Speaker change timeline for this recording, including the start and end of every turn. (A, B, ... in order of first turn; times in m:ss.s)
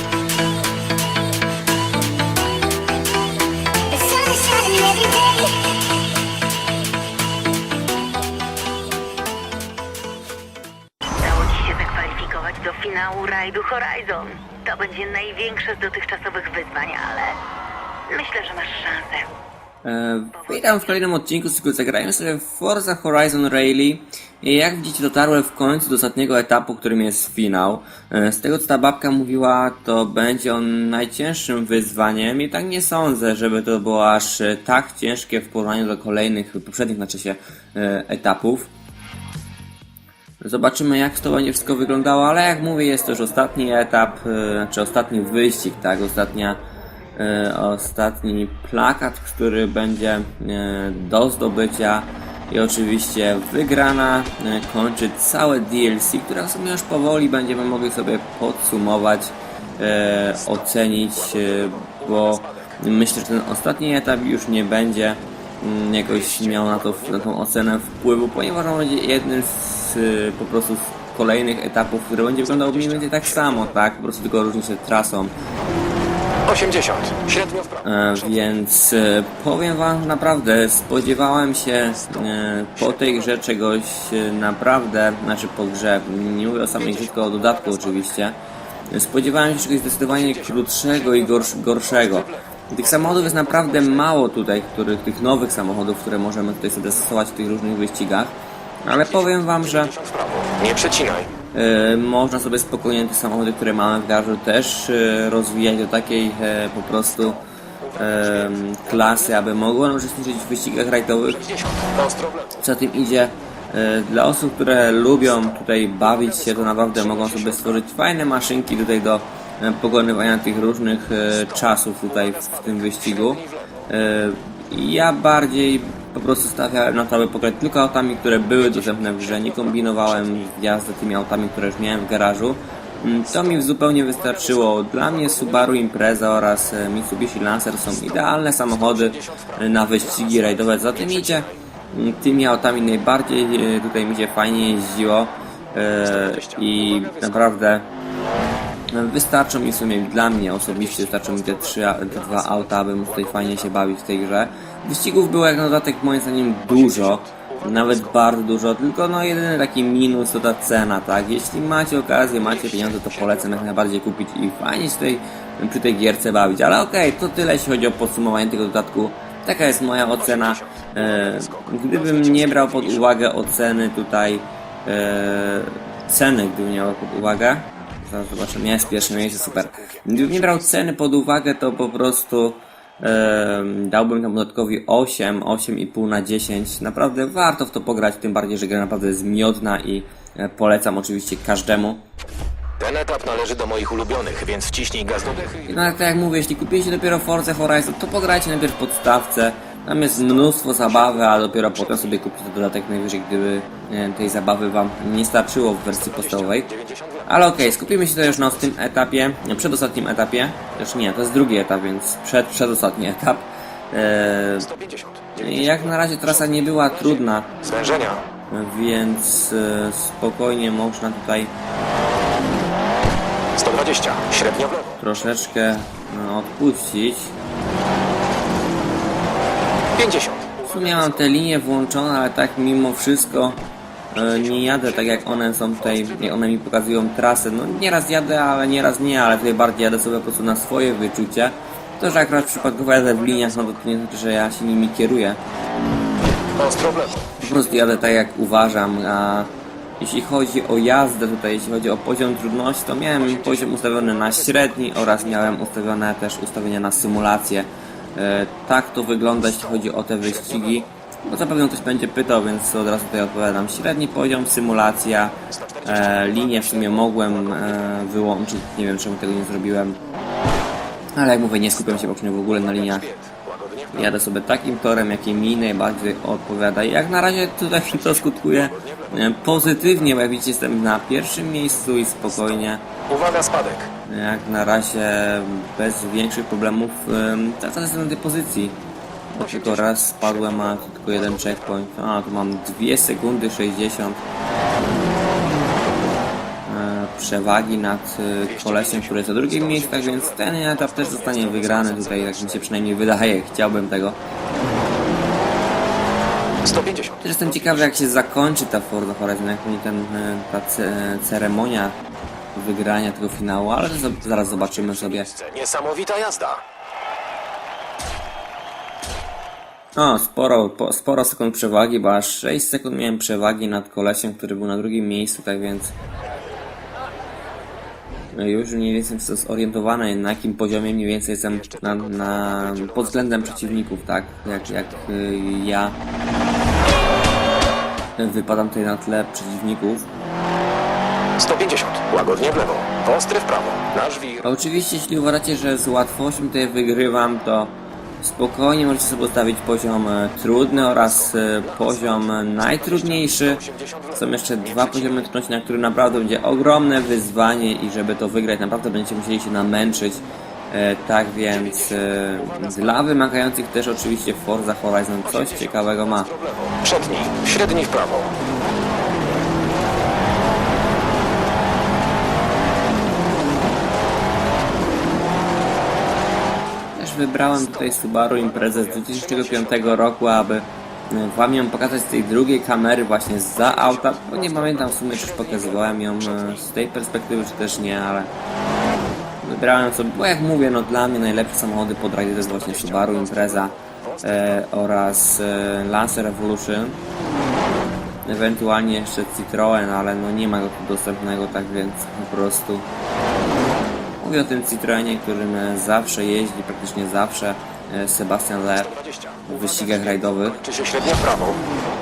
0:03.9-0:05.7 A
0:11.2-0:17.4 A
0:18.1-0:19.3 A
0:19.8-0:38.7 B
0:20.4-0:20.9 A
0:40.4-0:46.6 B
0:47.2-1:15.3 B
1:01.3-1:02.7 C
1:06.1-1:07.2 C
1:12.6-1:13.6 C
1:16.4-1:17.8 C
1:17.8-1:28.4 B
1:26.8-1:27.7 C
1:28.9-1:39.9 B
1:30.1-1:34.0 C
1:39.5-1:41.3 C
1:41.5-1:47.4 B
1:47.9-1:49.3 C
1:47.9-1:51.5 B
1:51.5-1:52.6 C
1:52.6-2:27.9 B
1:56.1-1:57.7 C
2:01.7-2:03.7 C
2:09.0-2:10.3 C
2:18.7-2:21.5 C
2:26.0-2:27.5 C
2:28.9-3:12.0 B
2:30.7-2:33.7 C
2:36.7-2:37.9 C
2:42.4-2:43.7 C
2:50.2-2:53.1 C
2:58.8-3:00.6 C
3:12.8-3:15.7 C
3:15.6-3:26.7 B
3:25.9-3:27.3 C
3:27.2-3:34.7 B
3:34.6-3:35.8 C
3:35.4-3:37.6 B
3:37.6-3:38.2 C
3:38.5-3:41.5 B
3:43.6-3:45.0 C
3:45.0-3:47.3 B
3:49.9-3:51.1 C
3:50.6-4:05.4 B
4:06.6-4:07.3 C
4:07.4-4:30.0 B
4:13.2-4:14.6 C
4:25.5-4:27.7 C
4:31.2-4:33.1 B
4:32.7-4:34.1 C
4:33.9-4:42.8 B
4:38.1-4:39.2 C
4:43.1-4:43.9 C
4:44.0-4:48.8 B
4:49.3-4:54.2 B
4:49.4-4:50.8 C
4:56.6-5:04.2 B
4:58.5-5:02.7 C
5:06.6-5:07.2 C
5:07.2-5:12.0 B
5:12.5-5:15.3 B
5:14.5-5:16.6 C
5:19.9-5:25.9 B
5:28.3-5:36.0 B
5:31.7-5:33.8 C
5:38.2-5:40.1 B
5:41.4-5:44.5 C
5:44.4-5:53.6 B
5:50.9-5:55.2 C
5:54.1-6:06.3 B
6:01.5-6:02.7 C
6:05.3-6:08.3 C
6:16.9-6:28.3 B
6:17.9-6:19.8 C
6:23.6-6:26.6 C
6:29.4-6:37.0 B
6:32.4-6:34.6 C
6:38.2-6:42.9 B
6:44.2-6:48.9 B
6:48.8-6:51.6 C
6:49.4-6:50.6 B